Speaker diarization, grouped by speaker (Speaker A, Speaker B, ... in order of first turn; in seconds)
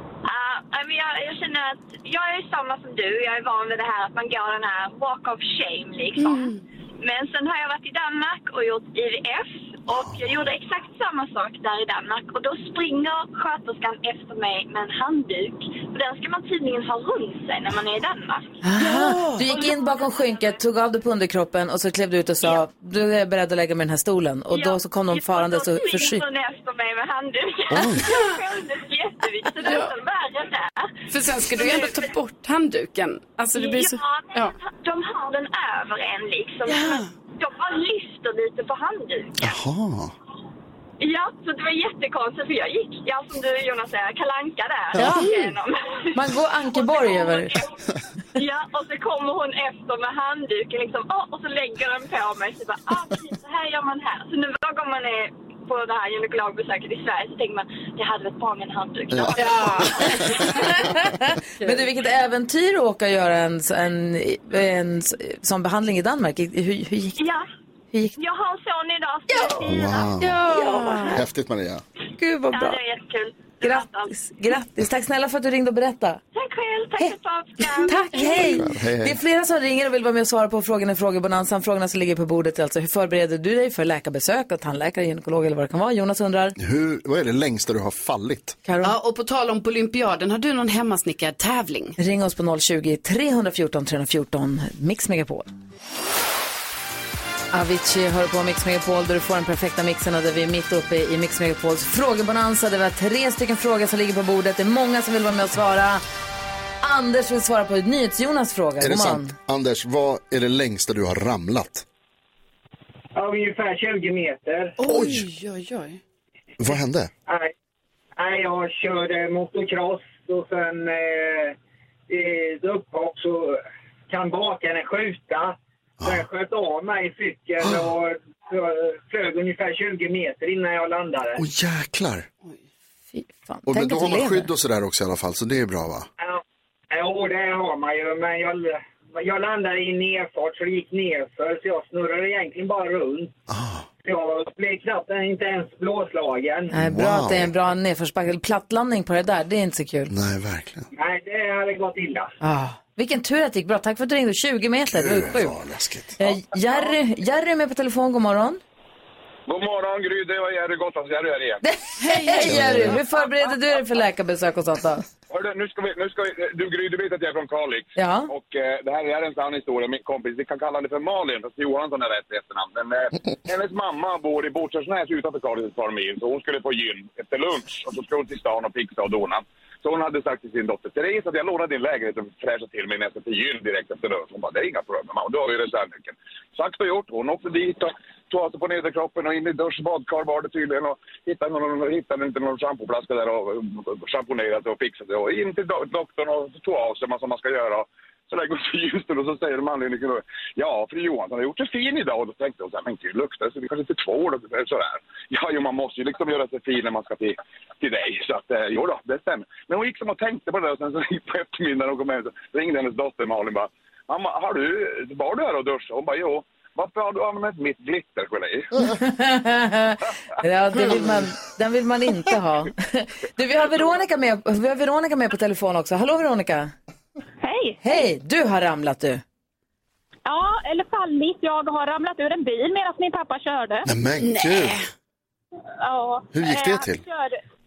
Speaker A: 0.2-18.6, 19.4-20.6, 24.5-32.1, 33.5-39.5, 41.0-47.7, 48.4-60.6, 67.2-67.4, 68.2-70.1, 72.5-74.2, 76.3-78.5
Speaker B: 6.2-6.6, 18.9-19.4, 29.6-29.9, 31.1-34.5, 36.6-37.1, 45.0-45.5, 59.4-60.4, 70.2-71.1, 88.8-92.0, 114.8-116.0, 162.0-162.6, 220.8-221.1, 234.2-234.8
Speaker C: 9.9-10.2, 27.7-28.0, 39.4-40.1, 59.1-60.3, 69.6-70.4, 71.1-71.8, 78.5-79.2, 86.6-88.6, 108.8-111.8, 114.9-115.2, 116.6-117.1, 126.0-126.2, 131.4-132.3, 133.7-136.1, 143.5-143.8, 146.7-147.5, 150.1-150.9, 154.9-156.2, 162.4-163.0, 233.8-234.8, 236.3-237.0
Speaker D: 18.6-26.2, 45.0-45.3, 46.1-47.6, 60.6-67.2, 67.9-68.2, 70.4-71.2, 72.2-72.8, 73.6-76.2, 77.8-86.5, 88.6-88.9, 92.0-95.5, 97.5-106.0, 106.8-109.3, 133.1-134.5, 146.7-150.1, 152.4-155.6, 156.2-158.6, 161.6-165.0, 167.9-168.3, 218.8-226.7, 227.8-229.2
Speaker E: 113.1-114.8, 117.3-117.5, 118.2-121.5, 122.1-131.4, 136.2-143.3, 144.0-146.7, 150.9-152.3
Speaker F: 159.5-161.6, 165.3-218.8
Speaker G: 230.2-233.8, 235.8-237.4